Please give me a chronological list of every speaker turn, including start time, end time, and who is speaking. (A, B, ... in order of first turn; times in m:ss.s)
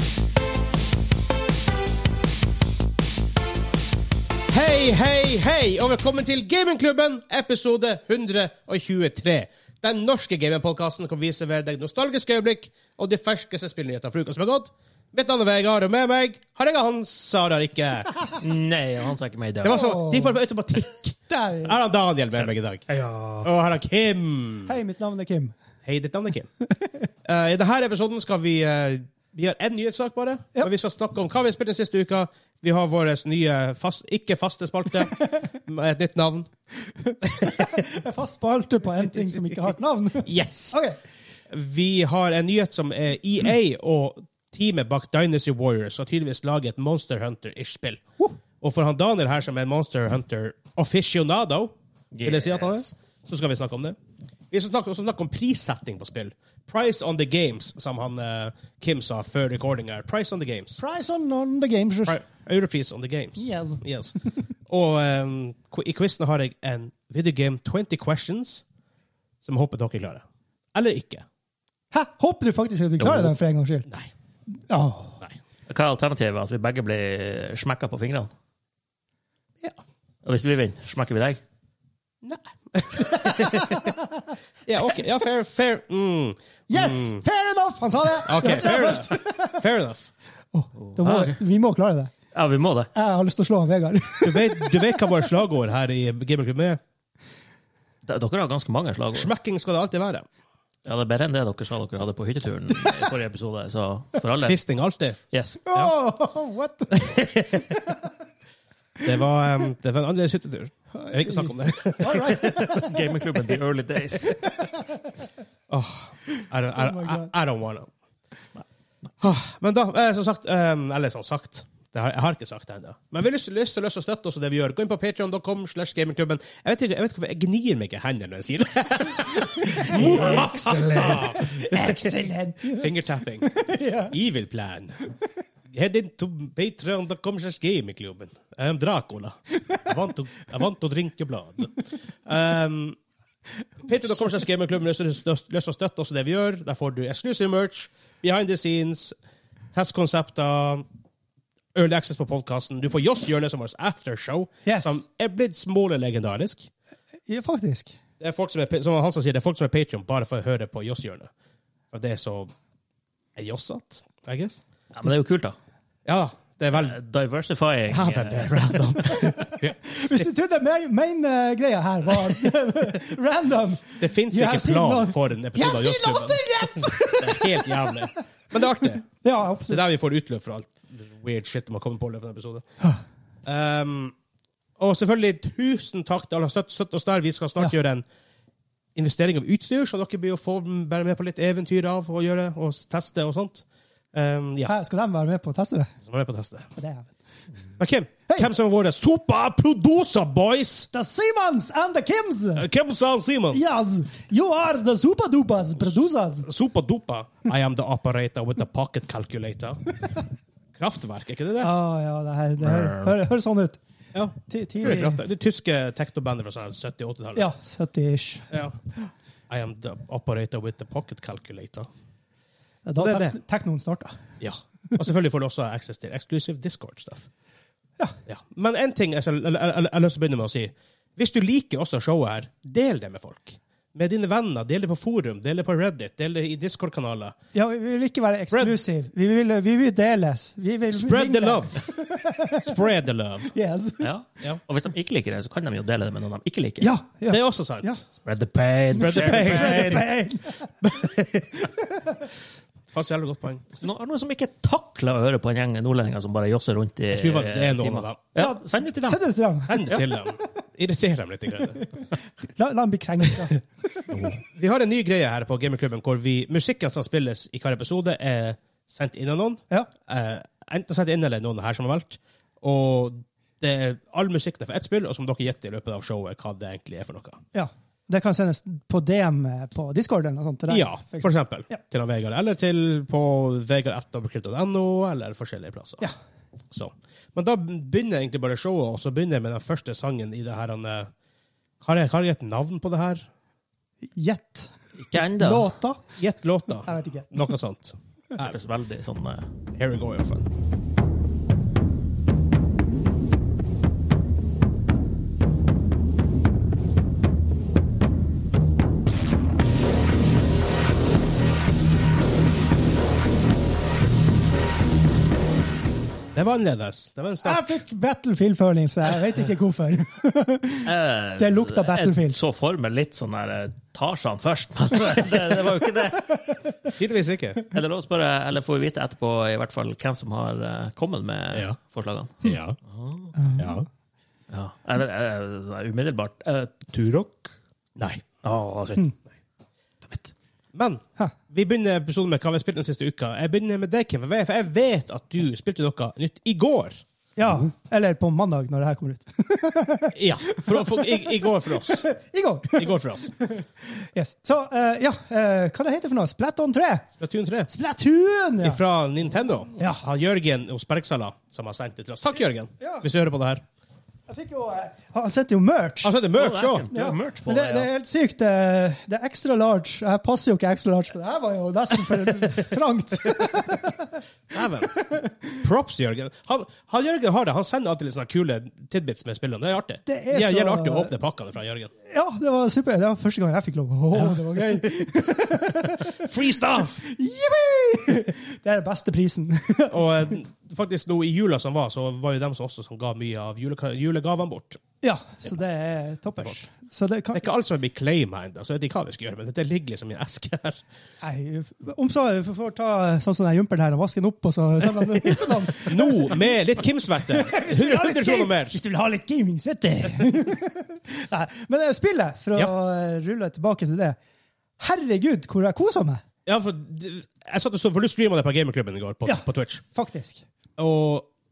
0:04.5-0:18.1 A
0:18.3-0:19.9 B
0:19.6-0:22.8 A
0:19.7-0:20.4 C
0:21.3-0:21.8 C
0:22.4-0:23.5 B
0:23.4-0:24.7 A
0:24.7-0:25.6 C
0:25.8-0:26.5 A
0:26.7-0:27.1 C
0:27.2-0:36.5 A
0:35.1-0:35.5 C
0:36.8-0:41.0 C
0:37.2-0:37.8 A
0:40.2-0:40.8 A
0:41.5-0:48.0 A
0:48.6-0:54.0 A
0:52.1-0:52.9 B
0:54.5-1:00.8 A
1:00.8-1:02.2 C
1:02.1-1:04.1 A
1:03.4-1:03.8 C
1:04.7-1:08.6 A
1:09.4-1:11.3 A
1:11.9-1:13.9 C
1:13.0-1:13.3 B
1:14.7-1:15.2 C
1:15.7-1:18.3 B
1:20.2-1:21.4 B
1:22.2-1:23.9 A
1:23.0-1:24.3 C
1:24.7-1:27.2 A
1:26.7-1:29.6 C
1:28.2-1:30.1 A
1:30.5-1:32.1 C
1:30.8-1:31.4 B
1:32.3-1:32.9 B
1:33.0-1:35.2 C
1:34.2-1:36.8 A
1:38.1-1:39.3 B
1:39.1-1:40.2 A
1:40.8-1:44.6 B
1:44.4-1:45.2 A
1:45.3-1:45.6 B
1:45.7-1:48.0 C
1:47.0-1:47.8 A
1:49.0-1:52.9 A
1:51.0-1:53.0 C
1:52.3-1:54.5 B
1:54.3-1:55.0 C
1:55.7-1:57.9 A
1:56.7-1:57.3 C
1:59.2-2:15.1 A
2:09.4-2:12.9 C
2:13.4-2:14.1 C
2:15.7-2:23.0 A
2:23.8-2:29.2 A
2:29.7-2:30.8 A
2:31.7-2:36.7 A
2:34.7-2:35.0 C
2:37.3-2:38.0 C
2:38.2-2:41.3 A
2:41.9-2:42.5 A
2:43.4-2:44.6 A
2:44.9-2:45.6 B
2:46.1-2:47.0 A
2:46.7-2:48.9 B
2:47.9-2:50.2 A
2:49.1-2:58.1 C
2:54.0-2:59.1 A
2:59.2-2:59.8 C
2:59.7-3:02.6 A
3:03.4-3:04.2 A
3:04.8-3:08.1 A
3:09.0-3:14.7 A
3:14.7-3:15.9 C
3:16.0-3:16.7 A
3:16.8-3:17.1 C
3:17.8-3:20.9 A
3:20.9-3:22.7 C
3:22.6-3:23.7 A
3:23.5-3:26.5 C
3:25.9-3:29.9 A
3:30.8-3:31.7 A
3:31.6-3:33.8 C
3:32.7-3:33.1 B
3:34.1-3:37.5 A
3:34.5-3:35.2 C
3:37.4-3:38.5 C
3:38.5-3:38.8 A
3:39.5-3:41.9 A
3:42.8-3:44.2 C
3:43.0-3:43.4 A
3:44.4-3:47.3 A
3:48.3-3:57.4 A
3:57.5-4:02.8 C
4:00.9-4:01.9 A
4:02.6-4:03.5 A
4:03.5-4:04.1 C
4:04.0-4:06.9 B
4:06.8-4:08.0 C
4:07.3-4:08.0 A
4:08.2-4:10.1 B
4:09.0-4:10.0 A
4:09.0-4:11.0 C
4:10.8-4:11.6 A
4:12.9-4:13.8 A
4:13.8-4:19.2 B
4:17.1-4:18.2 A
4:18.4-4:20.4 C
4:19.6-4:21.8 A
4:22.4-4:24.0 C
4:24.4-4:37.4 A
4:37.5-4:41.8 C
4:40.7-4:46.0 A
4:46.7-4:51.1 A
4:51.8-4:53.3 A
4:54.2-4:56.0 C
4:55.0-4:55.8 B
4:56.2-4:58.6 A
4:56.8-4:57.3 C
4:58.4-4:59.5 B
4:59.7-5:00.5 A
5:16.3-5:17.7 A
5:17.4-5:22.4 C
5:20.9-5:26.9 B
5:27.0-5:27.6 A
5:27.7-5:33.3 B
5:32.4-5:32.8 A
5:33.4-5:33.7 C
5:33.6-5:33.9 A
5:34.5-5:37.5 B
5:38.0-5:38.2 A
5:38.4-5:39.1 B
5:40.0-5:40.3 B
5:40.7-5:47.0 A
5:47.4-5:57.1 C
5:50.1-5:52.0 A
5:52.8-5:53.3 A
5:57.2-5:57.7 A
5:57.7-5:58.8 C
5:58.6-6:03.6 A
5:59.8-6:00.0 C
6:02.8-6:03.1 C
6:04.3-6:06.2 C
6:06.0-6:06.9 A
6:06.4-6:07.9 B
6:06.9-6:14.2 C
6:13.4-6:13.7 A
6:14.5-6:14.9 A
6:14.9-6:15.6 C
6:15.6-6:21.9 A
6:20.1-6:21.1 C
6:22.1-6:30.3 C
6:24.1-6:24.8 A
6:25.9-6:27.1 A
6:29.9-6:34.8 A
6:35.0-6:37.4 C
6:37.3-6:40.8 A
6:41.2-6:46.6 C
6:45.3-6:48.8 A
6:47.3-6:54.2 C
6:54.8-6:56.2 C
6:56.5-6:59.8 A
6:59.2-7:00.4 C
7:00.8-7:01.3 A